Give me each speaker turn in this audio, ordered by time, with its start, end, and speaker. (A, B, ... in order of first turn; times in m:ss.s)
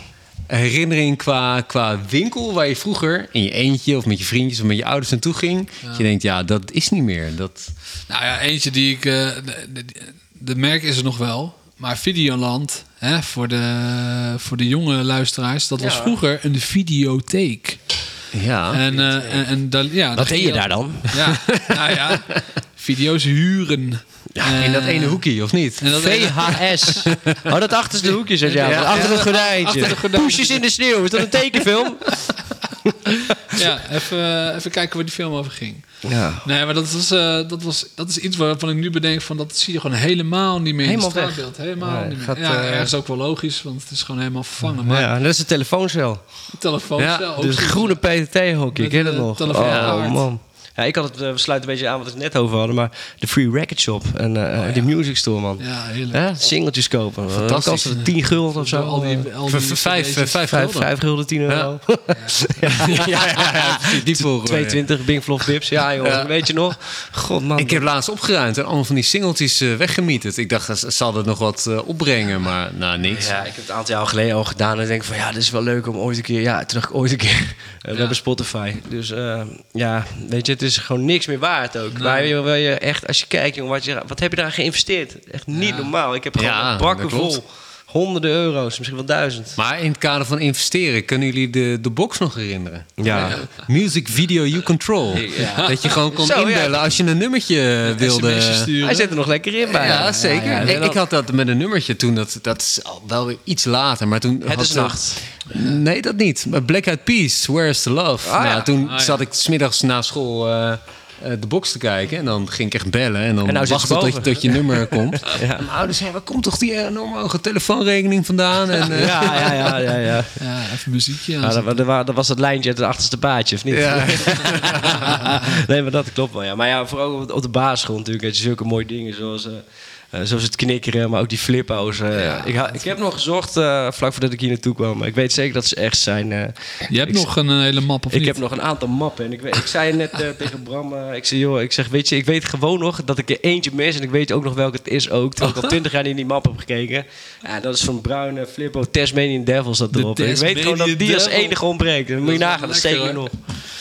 0:00.5-0:07.7 A
0:08.1-0:18.0 B
0:15.8-0:16.1 C
0:18.3-0:18.8 A
0:18.7-0:25.2 B
0:18.9-0:19.4 C
0:20.1-0:21.2 C
0:21.2-0:22.4 A
0:24.5-0:26.2 A
0:25.8-0:27.1 B
0:25.9-0:33.6 C
0:27.1-0:27.5 A
0:28.0-0:30.6 B
0:28.6-0:29.4 A
0:33.4-0:45.1 B
0:36.0-0:36.5 C
0:40.8-0:42.9 C
0:44.8-0:46.2 C
0:46.5-0:48.0 B
0:47.0-0:47.3 A
0:47.4-0:59.3 C
0:48.7-0:50.2 B
0:49.6-0:50.0 A
0:54.6-0:54.9 B
0:55.6-0:56.2 B
0:57.3-0:58.0 A
0:58.0-1:00.4 B
0:59.4-1:00.9 A
1:00.5-1:07.8 C
1:02.8-1:04.8 A
1:06.0-1:06.3 A
1:07.6-1:13.3 A
1:13.1-1:29.6 C
1:21.9-1:22.3 B
1:25.5-1:25.9 B
1:26.4-1:27.4 A
1:29.6-1:38.7 A
1:33.0-1:33.4 C
1:35.1-1:37.0 C
1:35.4-1:35.8 B
1:37.8-1:39.2 B
1:38.8-1:41.0 C
1:39.6-1:59.7 A
1:44.4-1:45.2 C
1:48.2-1:48.7 C
1:48.8-1:49.2 B
1:53.4-1:55.6 C
1:58.9-2:00.4 C
2:00.4-2:01.8 B
2:01.4-2:17.3 C
2:03.7-2:05.2 A
2:12.1-2:12.8 B
2:16.9-2:18.4 B
2:18.1-2:33.5 C
2:29.9-2:31.6 B
2:32.2-2:33.3 B